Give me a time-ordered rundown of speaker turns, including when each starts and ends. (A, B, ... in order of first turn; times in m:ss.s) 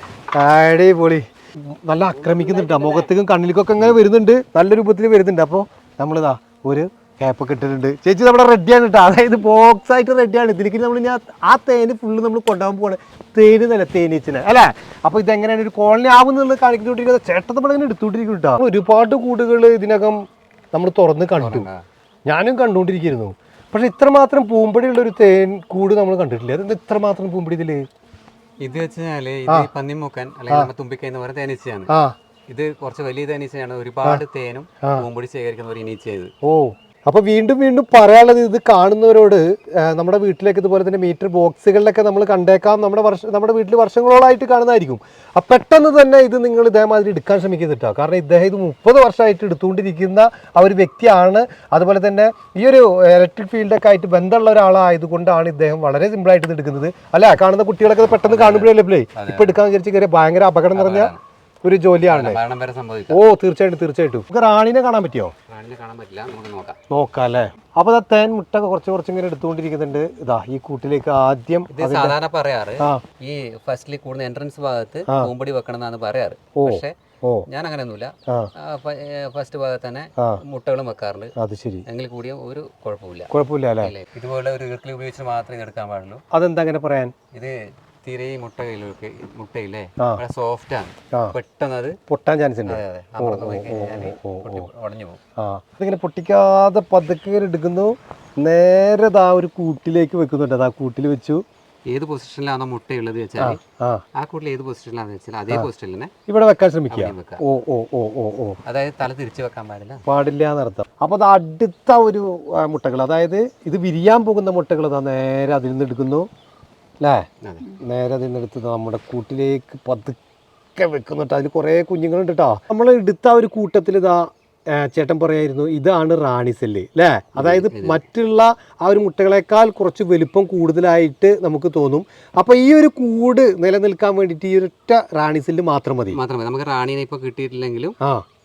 0:00.3-0:20.2 A
0:02.3-0:02.9 B
0:20.7-0:21.7 A
0:21.4-0:21.8 B
0:22.3-0:27.8 A
0:28.6-0:31.9 B
0:31.9-0:32.1 A
0:32.5-0:36.3 B
0:36.4-1:01.1 A
0:58.2-0:59.5 B
1:00.7-1:01.2 B
1:01.6-1:02.4 A
1:02.1-1:03.2 B
1:03.1-1:05.3 A
1:05.5-1:06.8 B
1:06.9-1:12.1 A
1:11.7-1:16.9 B
1:16.6-1:17.4 A
1:17.5-1:21.3 B
1:21.4-1:21.8 A
1:21.9-1:23.3 B
1:23.3-1:23.9 A
1:23.8-1:26.2 B
1:26.3-1:27.1 A
1:27.3-1:32.0 B
1:32.1-1:34.7 A
1:32.7-1:35.2 B
1:35.4-1:41.4 A
1:41.9-1:43.6 B
1:43.4-1:44.0 A
1:44.2-1:46.1 B
1:46.3-1:48.6 A
1:46.9-1:47.4 B
1:48.6-1:50.0 B
1:50.1-1:56.3 A
1:57.0-2:00.2 A
1:57.4-1:57.7 B
2:00.8-2:16.2 A
2:07.4-2:08.0 B
2:16.1-2:17.9 B